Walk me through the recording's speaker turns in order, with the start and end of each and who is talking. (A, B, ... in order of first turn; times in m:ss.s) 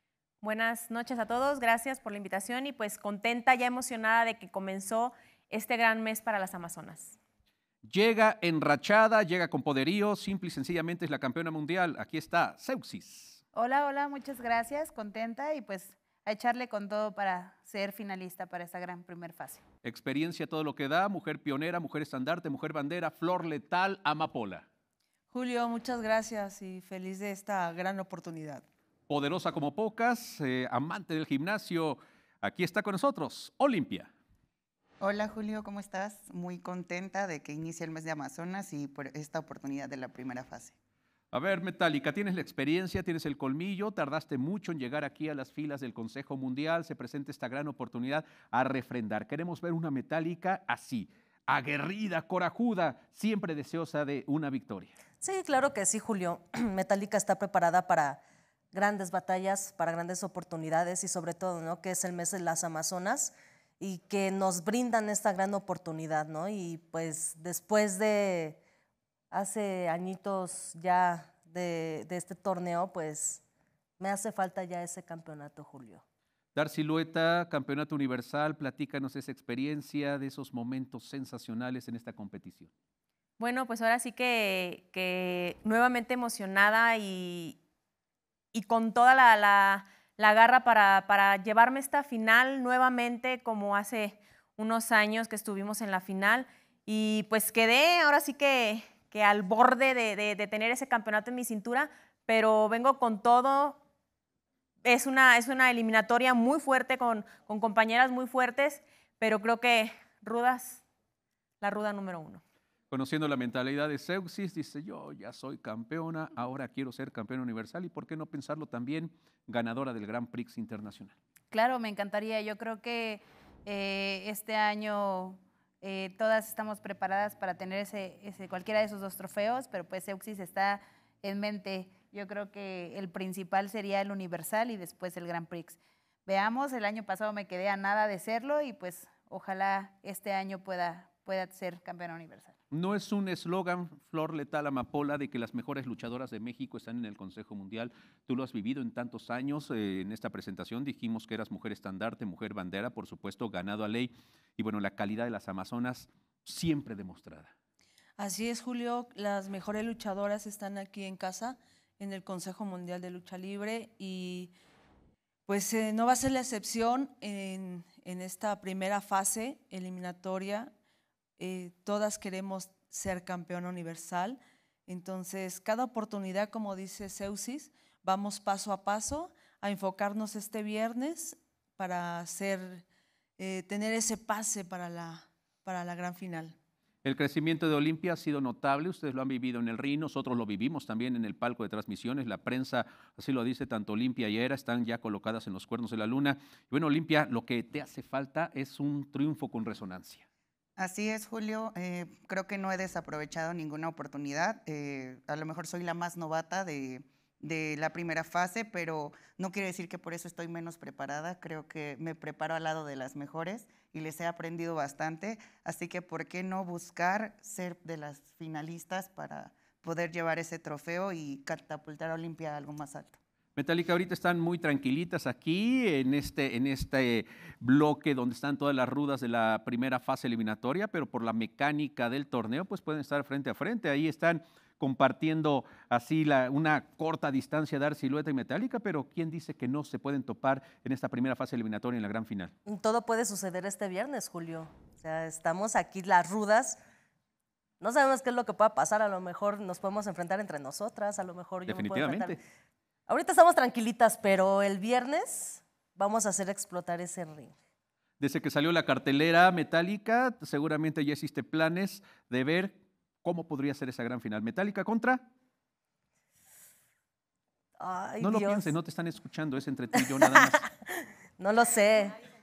0:00.4-0:07.2 A
0:07.8-0:13.4 B
0:13.5-0:19.6 C
0:19.8-0:24.7 B
0:25.3-0:28.7 D
0:29.1-0:34.1 B
0:35.0-0:40.8 E
0:41.3-0:54.9 B
0:55.2-0:58.2 F
0:58.7-1:08.6 F
1:09.3-1:13.4 F
1:14.0-1:16.0 F
1:16.6-1:22.7 B
1:23.4-1:27.6 A
1:28.5-1:43.8 A
1:44.8-1:50.8 A
1:51.6-1:52.4 A
1:52.9-2:01.2 B
2:01.5-2:22.6 C
2:22.7-2:37.5 B
2:38.2-2:44.5 D
2:45.5-2:50.7 D
2:51.4-3:02.8 D
3:03.4-3:06.6 D
3:07.0-3:20.3 B
3:20.8-3:43.2 E
3:43.6-4:02.5 B
4:02.7-4:06.8 F
4:07.8-4:12.4 F
4:11.7-4:12.4 B
4:13.1-4:17.6 F
4:18.2-4:25.2 B
4:27.8-4:28.7 F
4:28.2-4:30.6 B
4:30.0-4:30.7 F
4:31.4-4:32.2 F